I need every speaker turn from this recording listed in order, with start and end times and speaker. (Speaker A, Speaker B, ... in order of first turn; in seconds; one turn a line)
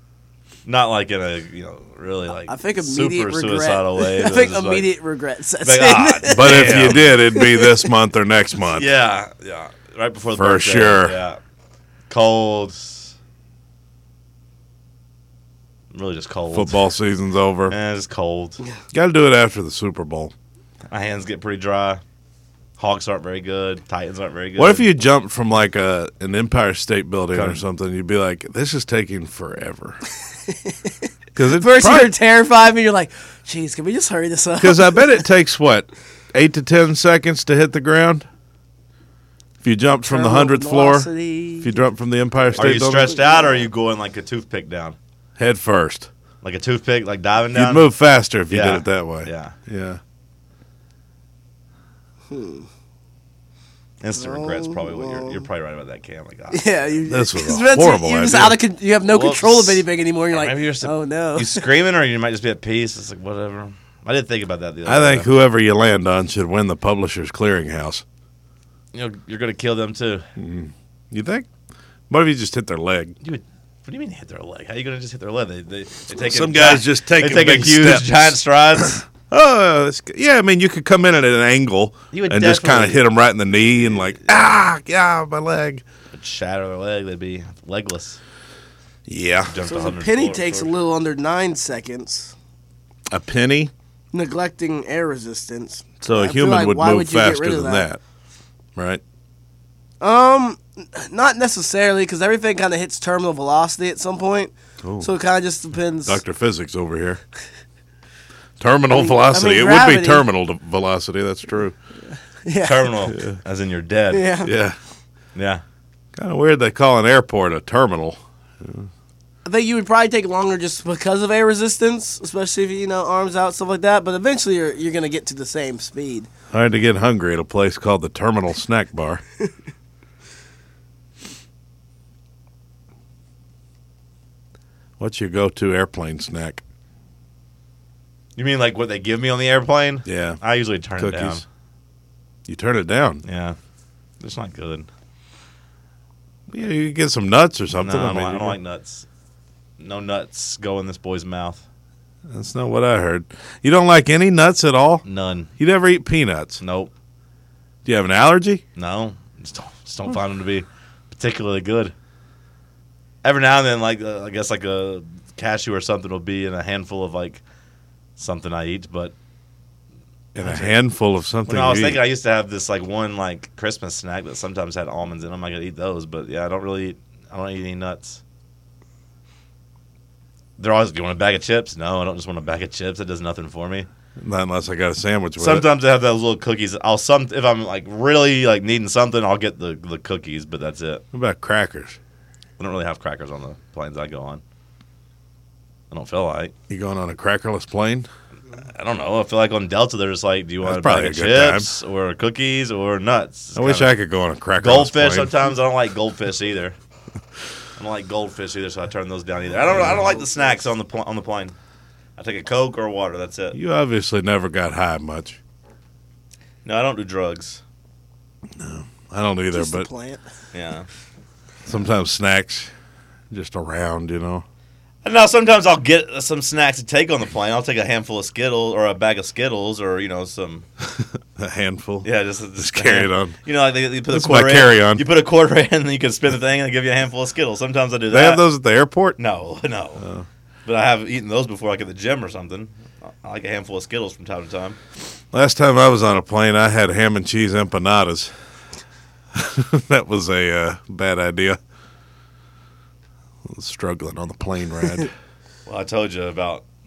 Speaker A: 0.7-4.9
Speaker B: 2.5-7.8
Speaker A: 5.6-7.0
Speaker C: 6.3-8.9
Speaker A: 8.7-11.4
Speaker C: 10.4-11.2
Speaker A: 12.1-13.1
Speaker A: 15.9-16.9
Speaker C: 16.5-17.7
Speaker A: 17.7-18.6
Speaker C: 18.9-20.3
Speaker A: 20.9-22.0
Speaker A: 22.8-24.9
Speaker C: 24.6-30.0
Speaker A: 27.3-27.6
Speaker B: 30.5-35.2
Speaker C: 31.4-32.1
Speaker C: 34.6-38.3
Speaker C: 39.6-43.1
Speaker B: 40.0-41.8
Speaker B: 42.5-43.7
Speaker A: 42.5-45.0
Speaker C: 45.4-46.1
Speaker A: 46.4-47.9
Speaker C: 47.5-50.0
Speaker A: 48.5-49.5
Speaker B: 52.3-52.7
Speaker A: 54.0-57.0
Speaker B: 54.1-55.4
Speaker B: 56.5-61.7
Speaker C: 57.1-58.6
Speaker A: 59.1-65.3
Speaker C: 64.8-68.0
Speaker A: 68.9-70.3
Speaker C: 70.4-71.5
Speaker C: 72.1-73.2
Speaker A: 73.2-79.0
Speaker C: 76.1-85.8
Speaker A: 82.1-84.4
Speaker A: 86.1-88.2
Speaker C: 89.1-89.5
Speaker A: 89.5-90.7
Speaker B: 89.7-92.3
Speaker C: 93.1-93.7
Speaker B: 94.1-97.9
Speaker C: 96.0-98.0
Speaker C: 98.7-99.0
Speaker B: 100.0-106.2
Speaker C: 104.8-105.1
Speaker C: 106.0-107.2
Speaker C: 108.6-111.7
Speaker B: 108.9-110.2
Speaker B: 112.1-112.9
Speaker A: 112.6-114.2
Speaker C: 113.1-113.4
Speaker B: 114.1-114.5
Speaker C: 114.4-114.8
Speaker A: 115.3-115.6
Speaker C: 116.2-118.9
Speaker B: 119.4-126.3
Speaker C: 126.5-129.2
Speaker C: 135.0-136.6
Speaker A: 138.3-141.4
Speaker C: 140.1-140.4
Speaker C: 140.9-141.4
Speaker C: 142.5-143.2
Speaker A: 143.2-143.6
Speaker A: 144.2-144.9
Speaker C: 146.5-148.6
Speaker A: 147.8-149.1
Speaker A: 149.8-151.6
Speaker C: 152.3-155.0
Speaker A: 155.0-155.5
Speaker C: 155.6-156.6
Speaker A: 156.6-156.9
Speaker C: 157.8-158.6
Speaker A: 158.8-161.9
Speaker A: 163.2-167.4
Speaker A: 168.2-169.1
Speaker C: 170.3-172.0
Speaker A: 170.4-170.8
Speaker A: 171.4-178.2
Speaker A: 180.6-183.9
Speaker C: 184.2-185.7
Speaker A: 185.4-191.0
Speaker C: 191.1-192.0
Speaker A: 192.6-194.4
Speaker A: 195.9-196.5
Speaker C: 196.7-198.1
Speaker A: 198.6-203.9
Speaker C: 200.6-201.7
Speaker C: 203.5-205.3
Speaker A: 204.6-206.8
Speaker A: 207.8-211.5
Speaker C: 209.7-210.0
Speaker A: 212.2-213.6
Speaker C: 213.5-215.4
Speaker A: 216.6-217.6
Speaker C: 218.6-219.9
Speaker B: 219.5-220.2
Speaker A: 220.5-220.9
Speaker C: 221.7-222.7
Speaker C: 223.3-224.4
Speaker A: 225.0-230.7
Speaker C: 230.8-233.3
Speaker A: 232.0-238.4
Speaker C: 234.1-235.0
Speaker C: 238.1-239.2
Speaker A: 239.2-240.0
Speaker C: 240.0-240.2
Speaker A: 240.7-244.8
Speaker C: 245.3-248.3
Speaker C: 249.3-251.6
Speaker C: 253.4-255.1
Speaker A: 255.7-256.6